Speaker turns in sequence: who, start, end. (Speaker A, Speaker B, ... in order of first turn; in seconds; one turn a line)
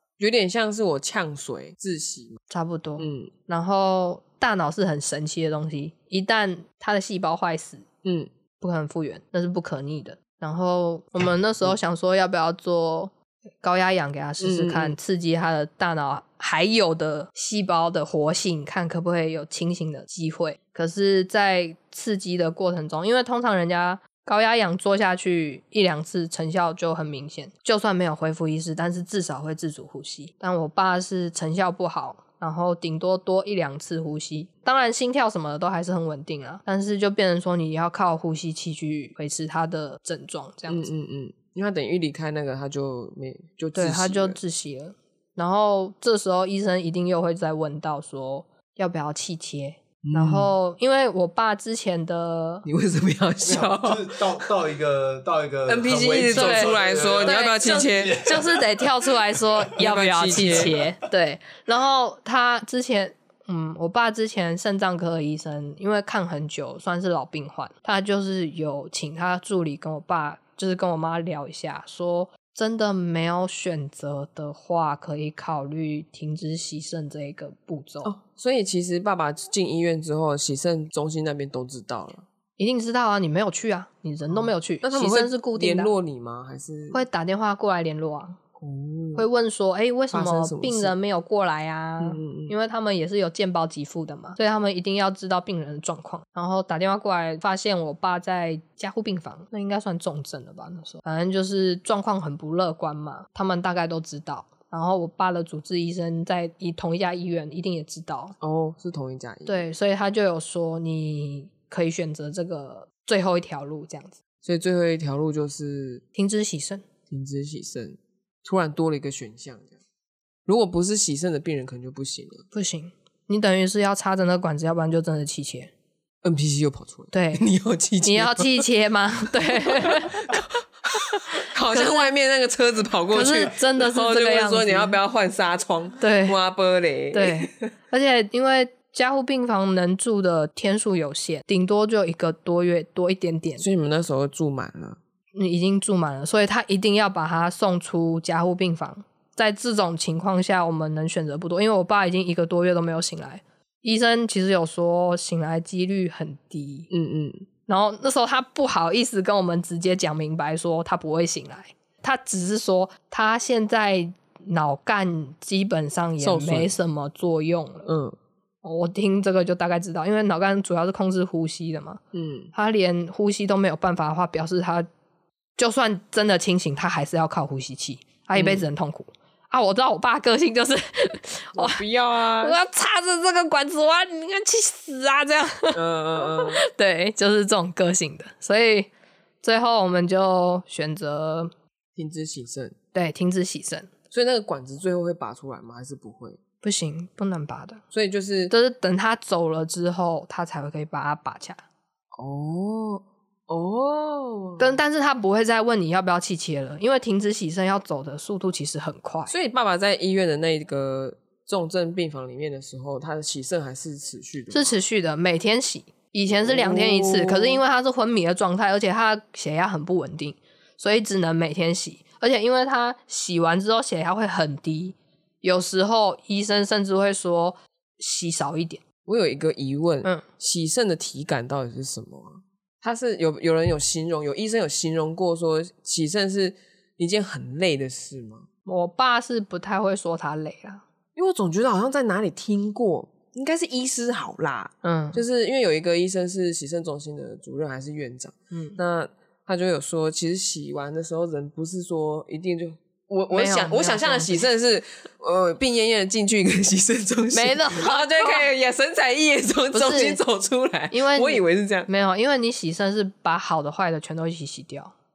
Speaker A: 0.2-2.4
Speaker B: 2.5-7.8
Speaker A: 3.0-3.3
Speaker A: 8.0-8.3
Speaker B: 8.6-40.9
Speaker A: 14.4-15.0
Speaker A: 40.7-44.4
Speaker B: 43.7-52.7
Speaker A: 50.0-50.5
Speaker A: 52.6-54.5
Speaker C: 53.4-58.9
Speaker A: 55.6-58.3
Speaker B: 56.3-78.1
Speaker A: 59.8-60.7
Speaker C: 60.4-60.7
Speaker A: 78.0-82.2
Speaker B: 82.6-85.9
Speaker A: 84.3-87.0
Speaker B: 86.9-88.4
Speaker A: 88.6-89.2
Speaker B: 89.1-108.3
Speaker A: 90.1-90.9
Speaker A: 92.0-92.5
Speaker A: 108.4-109.6
Speaker B: 109.5-114.1
Speaker A: 114.4-116.0
Speaker B: 116.1-116.8
Speaker A: 117.1-119.8
Speaker A: 120.5-122.4
Speaker B: 122.5-125.7
Speaker A: 126.2-128.6
Speaker B: 127.1-127.5
Speaker B: 128.0-130.4
Speaker A: 129.4-137.7
Speaker B: 131.7-132.1
Speaker B: 133.1-135.0
Speaker B: 136.0-136.4
Speaker B: 137.1-143.6
Speaker A: 143.6-145.0
Speaker B: 145.3-156.9
Speaker A: 156.9-157.4
Speaker B: 157.7-167.9
Speaker A: 166.2-166.7
Speaker A: 167.8-168.2
Speaker B: 168.6-172.0
Speaker A: 172.1-172.5
Speaker B: 172.5-174.9
Speaker B: 175.6-181.8
Speaker A: 178.3-178.6
Speaker A: 181.5-182.6
Speaker B: 182.4-188.9
Speaker A: 185.7-186.6
Speaker B: 189.4-191.5
Speaker A: 191.9-192.8
Speaker B: 192.9-193.9
Speaker A: 194.1-196.4
Speaker B: 196.6-197.8
Speaker A: 197.9-198.5
Speaker B: 198.5-201.6
Speaker A: 202.2-204.8
Speaker B: 204.6-209.3
Speaker A: 209.3-214.8
Speaker B: 214.5-228.8
Speaker A: 216.3-217.6
Speaker A: 229.1-238.5
Speaker B: 238.6-240.8
Speaker A: 241.2-261.9
Speaker B: 244.8-245.2
Speaker B: 248.5-248.8
Speaker B: 253.3-254.4
Speaker B: 257.3-258.5
Speaker B: 259.7-260.2
Speaker B: 260.9-264.9